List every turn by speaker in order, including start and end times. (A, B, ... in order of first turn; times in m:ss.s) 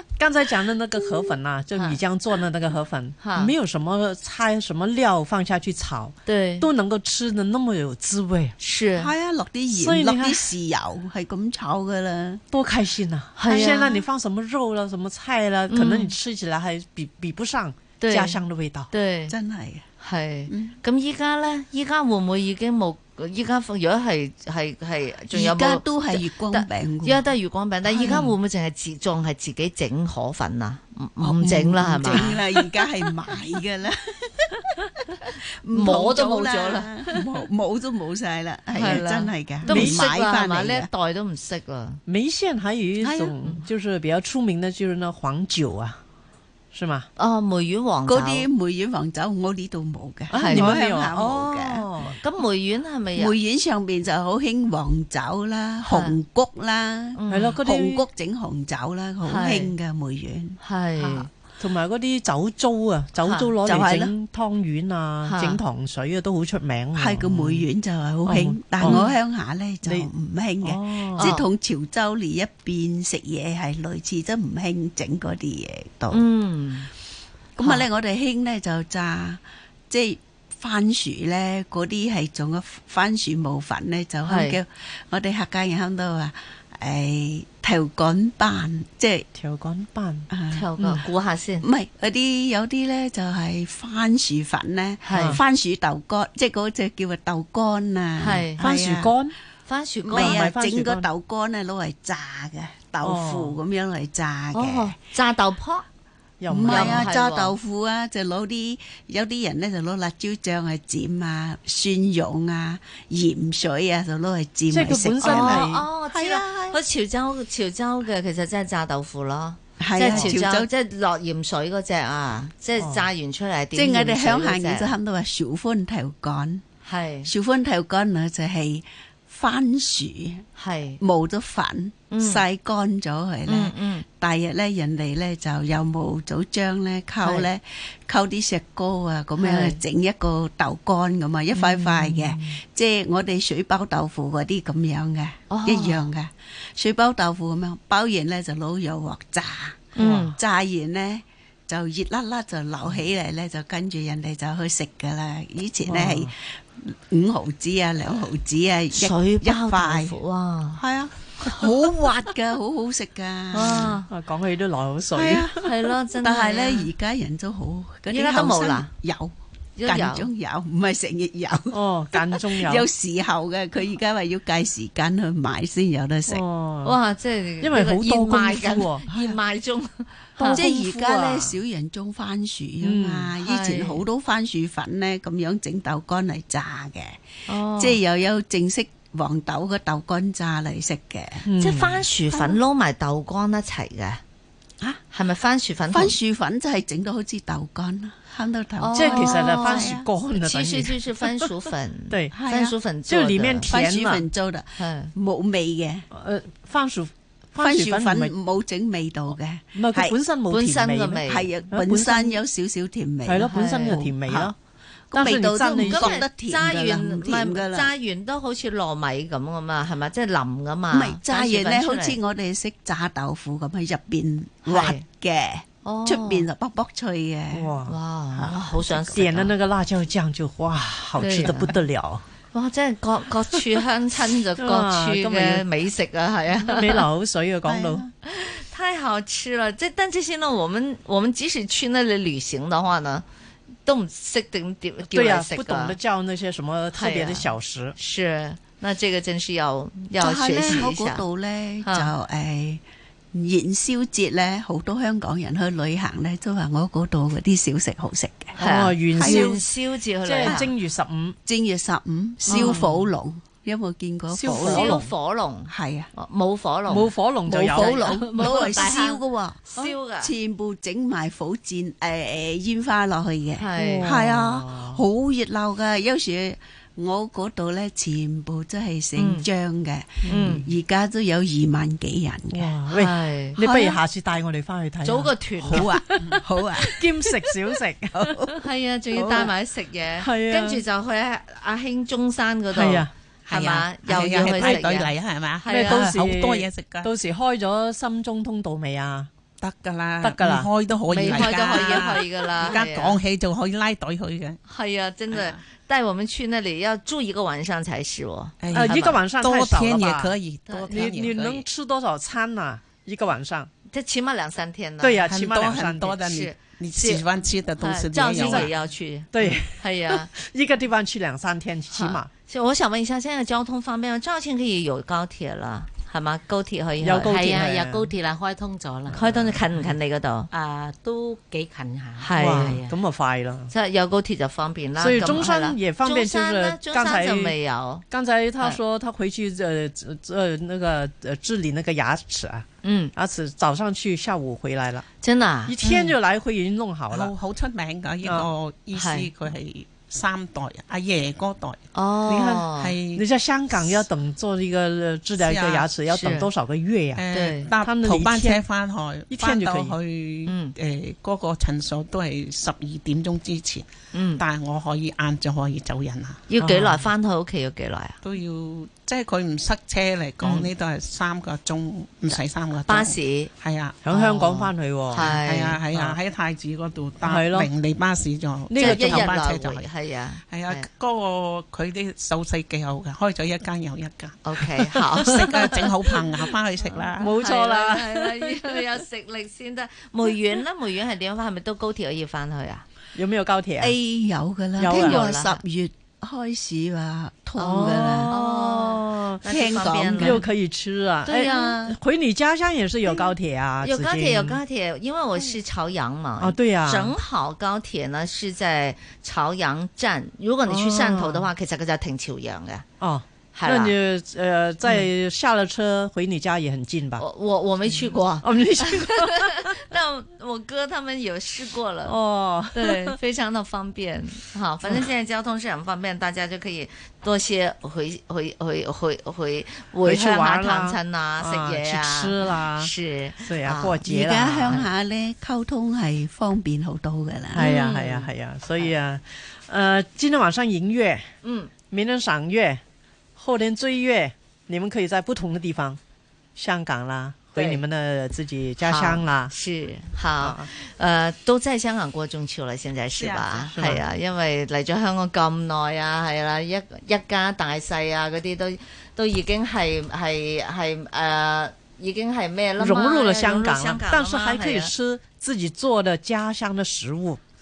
0:00.2-0:08.6 A
0:03.2-0:03.5 B
0:06.2-0:06.7 B
0:08.6-0:09.1 B
0:09.0-0:12.4 C
0:09.7-0:10.5 A
0:12.5-0:18.9 A
0:13.4-0:14.0 B
0:15.7-0:16.1 B
0:18.0-0:18.4 B
0:18.9-0:19.3 B
0:19.3-0:19.8 C
0:20.0-0:32.4 B
0:20.5-0:20.7 C
0:25.3-0:27.2 C
0:27.8-0:28.3 C
0:31.2-0:40.9 C
0:35.7-0:36.9 B
0:38.7-0:42.0 B
0:39.7-0:40.1 A
0:42.1-0:46.0 A
0:43.0-0:43.3 C
0:46.7-0:47.1 A
0:47.2-0:48.5 B
0:48.0-0:51.8 C
0:50.3-0:53.3 B
0:50.3-0:52.1 A
0:53.2-1:00.6 C
0:55.8-0:56.2 B
0:57.1-0:57.6 B
0:57.3-0:58.1 A
0:59.2-0:59.7 B
1:00.6-1:01.3 B
1:01.6-1:07.6 A
1:03.2-1:03.5 B
1:03.6-1:04.1 C
1:05.2-1:05.6 B
1:07.0-1:16.2 C
1:08.2-1:09.0 A
1:08.8-1:09.2 B
1:09.8-1:10.1 A
1:10.6-1:11.3 A
1:11.2-1:11.4 B
1:16.1-1:16.9 B
1:17.6-1:29.3 C
1:17.6-1:17.8 B
1:24.2-1:24.6 B
1:29.3-1:31.0 A
1:30.3-1:30.6 C
1:30.5-1:31.6 B
1:31.6-1:39.1 C
1:35.0-1:35.4 B
1:35.1-1:35.4 A
1:38.2-1:38.6 B
1:38.6-1:39.3 A
1:39.6-1:40.4 B
1:40.1-1:44.9 C
1:40.1-1:41.1 A
1:43.0-1:43.6 A
1:44.5-1:45.8 B
1:46.4-1:47.1 A
1:46.5-1:56.8 C
1:46.6-1:47.5 B
1:54.7-1:55.8 A
1:55.2-2:04.9 B
1:59.8-2:00.7 C
2:02.8-2:03.1 A
2:03.7-2:06.6 C
2:06.8-2:07.3 B
2:07.2-2:10.4 C
2:10.6-2:11.0 B
2:11.0-2:40.2 C
2:12.1-2:12.4 B
2:13.4-2:14.0 B
2:17.2-2:17.5 B
2:19.4-2:19.8 B
2:21.6-2:22.6 A
2:25.5-2:26.0 B
2:29.9-2:30.4 B
2:30.0-2:30.3 A
2:35.8-2:36.3 A
2:38.9-2:40.8 B
2:40.7-2:43.9 C
2:43.5-2:44.1 B
2:43.5-2:45.6 A
2:45.1-2:45.6 C
2:45.6-2:46.9 B
2:46.2-2:49.3 C
2:48.1-2:48.9 B
2:49.8-2:50.3 B
2:49.8-2:56.4 C
2:51.7-2:52.9 A
2:56.3-2:57.0 A
2:56.8-3:00.6 B
2:57.6-2:59.0 A
2:59.1-2:59.4 C
3:00.4-3:01.6 A
3:00.5-3:07.2 C
3:02.8-3:03.3 A
3:03.4-3:04.0 B
3:07.5-3:08.0 B
3:07.7-3:11.5 C
3:11.4-3:12.1 A
3:11.6-3:14.2 B
3:12.3-3:12.6 C
3:15.1-3:16.1 B
3:15.9-3:20.0 C
3:18.8-3:23.7 B
3:18.9-3:21.5 A
3:22.3-3:22.8 C
3:23.1-3:24.2 A
3:23.7-3:26.1 C
3:24.8-3:25.1 B
3:26.1-3:28.3 A
3:27.6-3:30.1 C
3:29.7-3:32.4 A
3:30.5-3:31.5 B
3:31.2-3:34.5 C
3:33.2-3:34.5 A
3:33.5-3:34.0 B
3:35.1-3:37.9 C
3:35.1-3:36.2 A
3:35.8-3:42.2 B
3:40.9-3:47.8 C
3:44.6-3:45.0 B
3:45.8-3:46.5 B
3:47.5-3:48.0 A
3:47.9-3:49.5 B
3:48.3-3:49.2 C
3:49.1-3:52.2 A
3:51.2-3:51.8 B
3:52.5-3:57.0 B
3:54.6-3:55.7 A
3:56.6-3:58.0 A
3:57.6-3:58.1 C
3:58.2-4:03.2 B
4:03.8-4:06.0 B
4:05.1-4:08.0 A
4:06.9-4:11.2 B
4:10.2-4:12.8 C
4:11.8-4:12.1 B
4:13.3-4:18.6 C
4:18.6-4:19.6 A
4:18.6-4:20.7 B
4:19.1-4:19.6 C
4:20.2-4:21.4 A
4:21.4-4:25.1 C
4:22.4-4:22.9 B
4:22.5-4:23.0 A
4:24.3-4:25.1 A
4:24.4-4:30.3 B
4:25.7-4:26.1 C
4:26.9-4:28.7 A
4:27.5-4:42.7 C
4:33.6-4:34.1 B
4:33.8-4:35.0 A
4:39.2-4:39.5 B
4:40.2-4:40.6 A
4:40.2-4:40.6 B
4:42.5-4:48.6 A
4:42.9-4:43.6 B
4:43.6-4:44.0 C
4:45.0-4:45.9 B
4:45.6-4:47.1 C
4:48.1-4:48.6 C
4:48.6-4:56.1 B
4:49.2-4:49.5 C
4:49.2-4:49.5 A
4:50.2-4:50.8 A
4:52.7-4:53.1 A
4:53.5-4:57.1 D
4:54.4-4:54.8 A
4:55.7-4:59.3 A
4:59.6-5:04.6 D
5:00.2-5:02.0 A
5:01.1-5:03.2 B
5:04.7-5:09.2 B
5:05.3-5:05.6 D
5:08.6-5:11.6 D
5:08.7-5:10.3 A
5:10.7-5:11.3 B
5:10.9-5:13.7 A
5:13.9-5:15.3 B
5:15.0-5:16.2 A
5:15.3-5:18.7 D
5:16.1-5:17.2 B
5:17.8-5:20.3 B
5:18.2-5:18.7 A
5:19.3-5:22.3 A
5:21.9-5:27.4 B
5:27.0-5:28.1 A
5:27.2-5:29.2 E
5:29.1-5:29.6 A
5:29.1-5:30.5 B
5:30.5-5:32.9 E
5:32.2-5:32.8 B
5:32.4-5:33.7 A
5:33.7-5:38.0 B
5:35.0-5:37.5 A
5:38.1-5:45.0 A
5:42.8-5:43.1 B
5:45.2-5:46.1 B
5:45.6-5:47.3 A
5:47.1-5:53.2 D
5:48.9-5:49.3 B
5:51.9-5:52.9 B
5:53.2-5:57.2 A
5:55.4-5:55.9 D
5:56.1-5:56.5 B
5:57.2-6:06.4 D
5:57.3-5:57.7 B
5:57.8-5:58.6 A
5:59.3-6:00.0 A
6:00.4-6:00.7 B
6:04.1-6:04.4 B
6:06.5-6:08.2 B
6:06.6-6:07.1 A
6:08.2-6:14.0 D
6:10.4-6:10.7 B
6:12.3-6:13.5 B
6:14.0-6:15.4 A
6:14.1-6:15.8 B
6:15.2-6:19.9 D
6:17.2-6:17.7 A
6:18.7-6:19.3 A
6:18.8-6:20.9 B
6:20.5-6:24.4 D
6:24.4-6:25.9 B
6:25.2-6:27.4 D
6:25.4-6:25.9 A
6:27.2-6:28.8 A
6:27.2-6:32.8 B
6:33.1-6:34.0 A
6:33.8-6:38.3 C
6:34.8-6:35.2 A
6:34.8-6:35.6 B
6:37.6-6:39.4 A
6:37.6-6:40.4 B
6:39.4-6:40.4 C
6:40.2-6:44.6 A
6:41.2-6:42.0 B
6:43.8-6:52.8 B
6:46.4-6:47.1 A
6:50.7-6:51.5 A
6:53.0-6:57.2 A
6:53.5-6:54.0 B
6:57.2-7:02.2 B
6:58.4-6:59.8 A
7:02.0-7:03.2 A
7:02.7-7:14.0 B
7:10.0-7:12.9 A
7:13.4-7:14.8 A
7:14.0-7:17.7 C
7:17.5-7:21.3 A
7:17.5-7:18.9 B
7:21.4-7:21.7 B
7:21.9-7:22.8 A
7:23.4-7:26.0 A
7:26.6-7:29.5 A
7:27.5-7:27.8 B
7:28.8-7:44.9 B
7:30.4-7:30.7 A
7:33.1-7:33.7 D
7:33.7-7:34.0 A
7:42.8-7:47.4 A